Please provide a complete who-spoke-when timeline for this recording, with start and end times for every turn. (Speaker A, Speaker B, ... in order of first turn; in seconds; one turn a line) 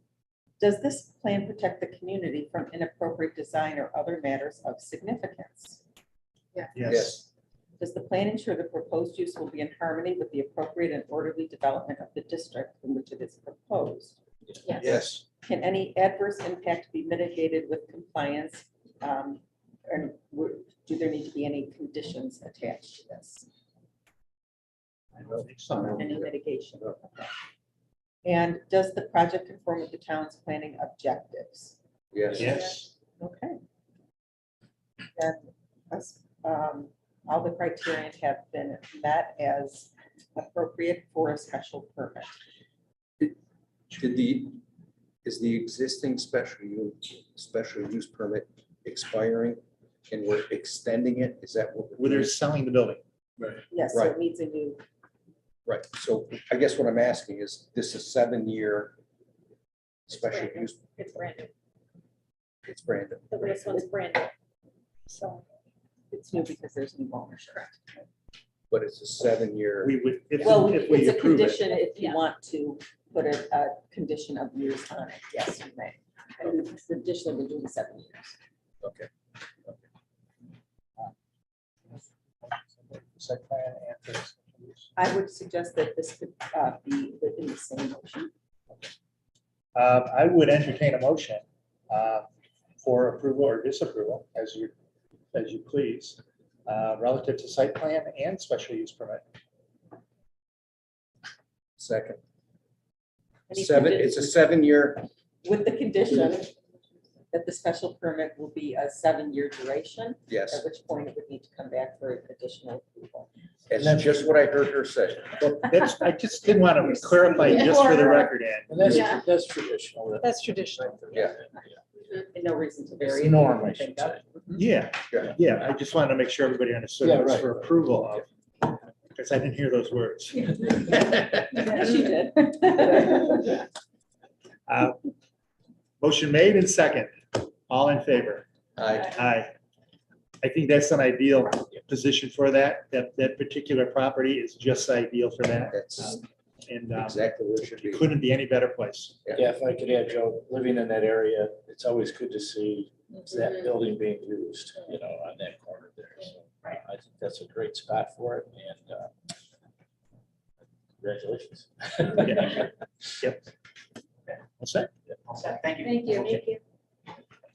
Speaker A: 0.6-5.8
Speaker B: 6.7-7.2
Speaker C: 6.8-7.2
Speaker A: 7.8-14.2
Speaker B: 14.8-15.2
Speaker C: 14.8-15.2
Speaker A: 14.8-23.4
Speaker C: 25.2-26.3
Speaker B: 25.2-26.0
Speaker A: 25.9-27.3
Speaker A: 28.2-31.8
Speaker C: 32.1-32.6
Speaker B: 32.4-32.9
Speaker A: 33.2-33.6
Speaker A: 35.2-42.4
Speaker C: 43.9-44.6
Speaker C: 45.2-52.3
Speaker B: 52.0-53.0
Speaker A: 53.7-54.8
Speaker C: 53.9-54.2
Speaker C: 55.7-59.0
Speaker C: 60.1-60.8
Speaker D: 60.1-61.5
Speaker C: 62.6-63.8
Speaker D: 63.3-64.3
Speaker D: 65.1-65.4
Speaker A: 66.1-67.8
Speaker C: 68.7-69.9
Speaker B: 69.8-71.7
Speaker A: 70.4-78.4
Speaker C: 78.8-79.1
Speaker B: 81.9-84.9
Speaker A: 85.0-88.3
Speaker B: 89.8-92.3
Speaker B: 92.8-94.7
Speaker B: 95.3-99.2
Speaker C: 101.8-102.2
Speaker A: 103.5-104.3
Speaker C: 103.5-105.0
Speaker A: 105.4-106.5
Speaker A: 107.3-113.3
Speaker C: 110.3-110.6
Speaker C: 113.7-115.4
Speaker E: 113.8-114.1
Speaker B: 115.4-118.9
Speaker D: 117.5-118.3
Speaker E: 118.7-121.8
Speaker D: 118.9-119.2
Speaker D: 120.2-121.0
Speaker C: 121.1-121.4
Speaker A: 122.3-124.6
Speaker E: 123.0-124.2
Speaker B: 124.5-131.8
Speaker E: 127.0-127.7
Speaker A: 131.7-133.4
Speaker B: 134.7-135.0
Speaker B: 136.0-138.4
Speaker C: 138.8-139.2
Speaker B: 139.1-139.6
Speaker B: 140.4-149.2
Speaker C: 145.7-146.2
Speaker C: 146.9-148.1
Speaker E: 149.3-159.1
Speaker E: 161.0-162.7
Speaker B: 162.2-162.7
Speaker B: 164.6-164.9
Speaker D: 165.6-166.6